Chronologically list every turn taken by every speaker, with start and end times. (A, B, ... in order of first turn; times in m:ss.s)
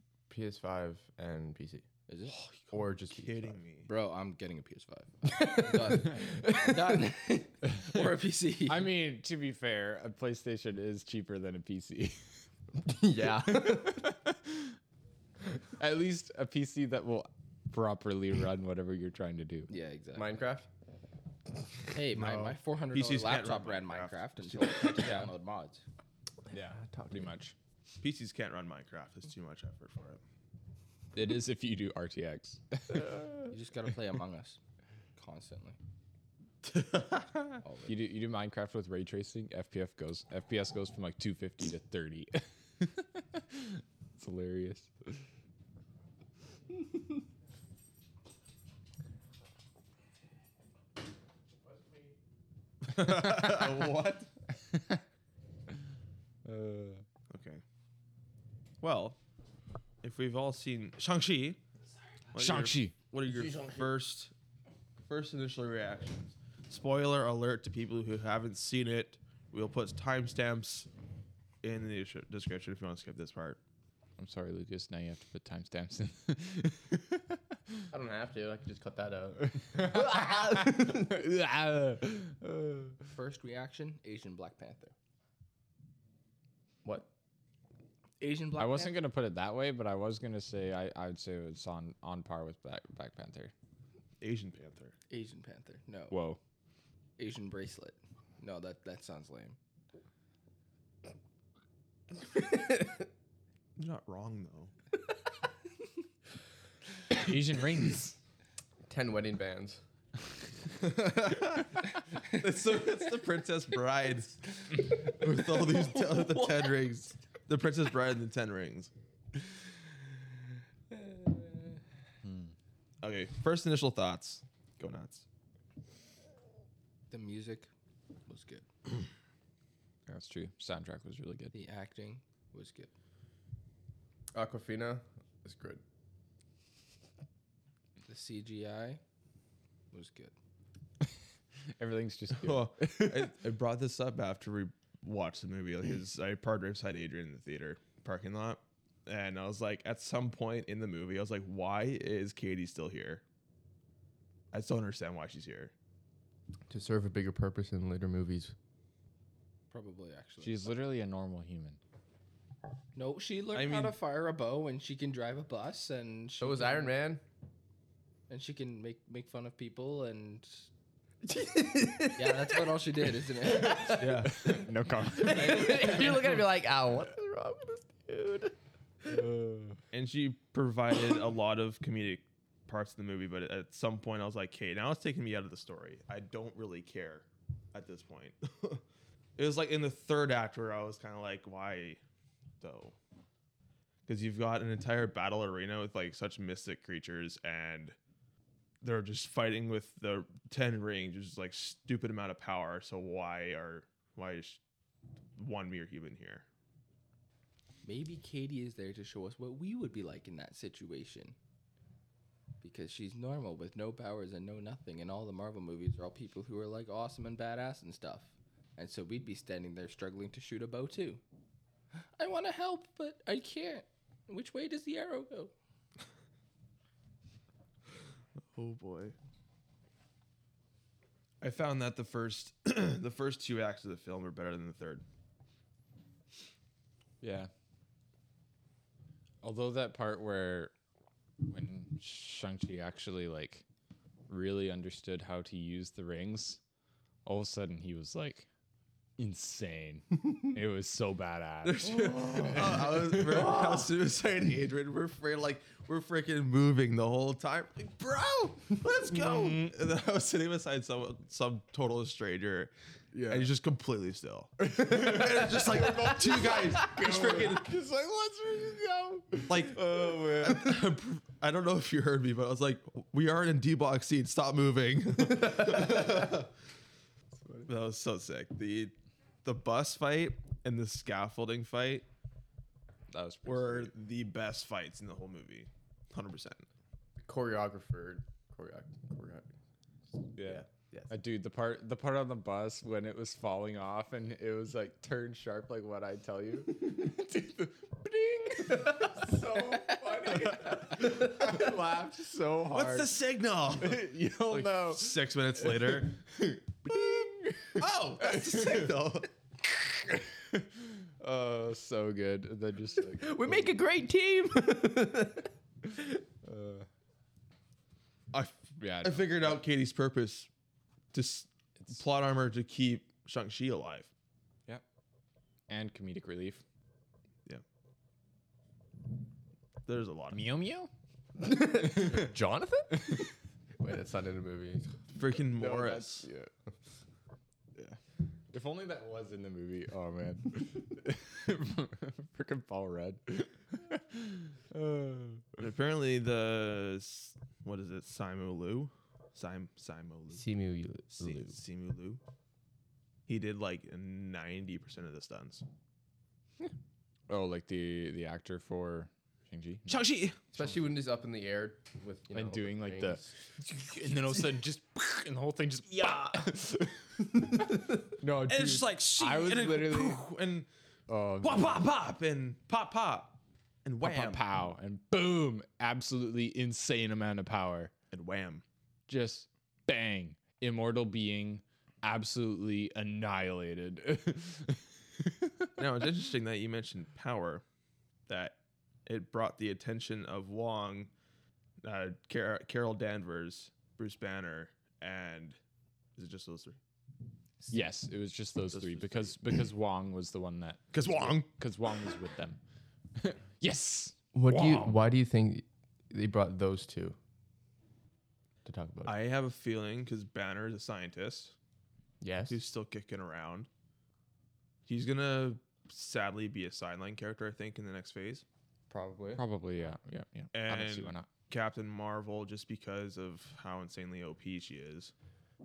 0:00.3-0:01.8 A
0:02.1-0:02.4 B
0:02.7-0:03.9 C
0:02.7-0:03.6 A
0:03.8-0:08.9 B
0:05.2-0:07.1 A
0:08.7-0:12.3 D
0:12.8-0:14.1 A
0:13.5-0:14.7 D
0:15.8-0:19.7 D
0:19.7-0:20.3 B
0:20.2-0:20.7 A
0:21.9-0:25.8 B
0:22.1-0:22.6 A
0:22.9-0:25.1 C
0:26.5-0:27.3 A
0:26.5-0:27.5 D
0:28.0-0:30.2 C
0:31.1-0:33.5 D
0:33.5-0:34.6 B
0:35.2-0:35.8 B
0:36.7-0:37.4 C
0:37.6-0:37.9 B
0:37.9-0:45.2 D
0:52.8-0:54.3 C
0:56.4-0:57.0 D
0:57.3-0:57.6 C
0:58.8-0:59.2 C
1:00.0-1:01.6 C
1:02.3-1:04.3 C
1:02.3-1:02.9 D
1:05.0-1:10.9 C
1:11.6-1:13.6 C
1:14.2-1:17.4 D
1:17.9-1:21.3 A
1:19.6-1:23.0 D
1:23.1-1:24.9 B
1:26.8-1:27.1 A
1:28.2-1:29.0 B
1:28.6-1:33.5 D
1:34.2-1:34.9 C
1:35.1-1:36.2 B
1:36.1-1:36.4 D
1:37.2-1:39.6 B
1:42.3-1:43.0 A
1:43.8-1:44.7 C
1:47.1-1:48.2 D
1:48.9-1:49.8 A
1:50.8-1:58.9 C
1:54.9-1:55.2 B
1:55.7-1:56.8 B
2:00.9-2:01.4 B
2:02.2-2:02.5 D
2:03.0-2:05.2 C
2:07.1-2:07.7 B
2:08.3-2:08.6 B
2:10.1-2:11.6 D
2:11.5-2:12.9 B
2:14.3-2:15.8 A
2:18.0-2:19.0 B
2:19.9-2:20.3 B
2:21.8-2:23.3 D
2:22.4-2:33.2 C
2:34.5-2:35.7 C
2:36.7-2:38.5 A
2:39.7-2:40.7 B
2:40.4-2:41.8 D
2:43.0-2:46.9 B
2:43.5-2:44.0 C
2:46.4-2:47.2 A
2:48.3-2:50.7 B
2:51.2-2:59.2 A
2:52.2-2:54.1 B
2:53.9-2:54.6 C
2:54.3-2:56.0 D
2:59.1-2:59.7 D
2:59.9-3:08.8 C
3:09.4-3:12.0 C
3:12.6-3:13.0 C
3:14.1-3:18.0 C
3:18.8-3:24.6 C
3:25.4-3:26.4 C
3:27.8-3:31.4 B
3:32.6-3:41.2 B
3:42.2-3:45.5 B
3:48.5-3:49.1 C
3:51.4-3:55.0 C
3:57.2-3:57.5 D
3:59.4-4:00.7 D
4:01.5-4:03.6 D
4:04.3-4:06.6 D
4:07.2-4:08.5 D
4:09.2-4:13.6 D
4:11.8-4:22.7 C
4:12.0-4:13.9 A
4:19.1-4:19.8 D
4:23.1-4:23.5 D
4:23.3-4:27.7 C
4:24.6-4:30.6 D
4:24.9-4:27.4 A
4:29.5-4:36.5 C
4:35.3-4:36.3 A
4:37.6-4:42.0 C
4:43.1-4:43.9 D
4:43.4-4:46.7 C
4:47.2-4:49.5 A
4:50.3-5:03.1 D
4:50.4-4:51.1 A
4:58.5-5:02.0 A
5:02.7-5:06.2 C
5:03.8-5:05.9 D
5:06.8-5:07.3 A
5:06.8-5:08.8 D
5:07.8-5:09.3 C
5:11.2-5:12.0 A
5:11.6-5:13.8 D
5:13.0-5:16.2 A
5:16.4-5:16.9 D
5:18.3-5:20.5 C
5:18.8-5:19.6 D
5:21.1-5:24.1 C
5:25.7-5:26.6 D
5:29.8-5:30.4 C
5:30.3-5:30.9 D
5:31.4-5:34.9 A
5:31.8-5:32.2 D
5:35.1-5:36.3 C
5:35.5-5:36.5 D
5:38.5-5:45.6 D
5:45.6-5:50.5 C
5:50.3-5:51.6 A
5:51.2-5:52.2 C
5:53.3-5:55.6 C
5:57.3-6:00.0 D
5:59.9-6:00.4 C
6:00.5-6:03.3 A
6:02.3-6:07.0 D
6:07.5-6:07.9 A
6:07.6-6:10.2 D
6:08.5-6:10.7 C
6:11.1-6:11.8 D
6:11.4-6:14.4 C
6:14.0-6:17.9 D
6:18.1-6:18.6 C
6:19.1-6:25.5 D
6:25.8-6:27.6 C
6:28.3-6:31.1 C
6:31.8-6:35.6 C
6:36.2-6:36.8 C
6:37.7-6:42.6 D
6:38.7-6:39.4 C
6:40.9-6:41.5 C
6:43.2-6:45.0 D
6:44.3-6:47.2 A
6:48.6-6:49.1 A
6:49.0-6:51.5 C
6:52.2-6:52.6 A
6:52.5-6:53.7 C
6:54.9-6:58.4 C
6:58.9-6:59.4 A
6:59.3-7:01.3 D
7:00.5-7:05.1 C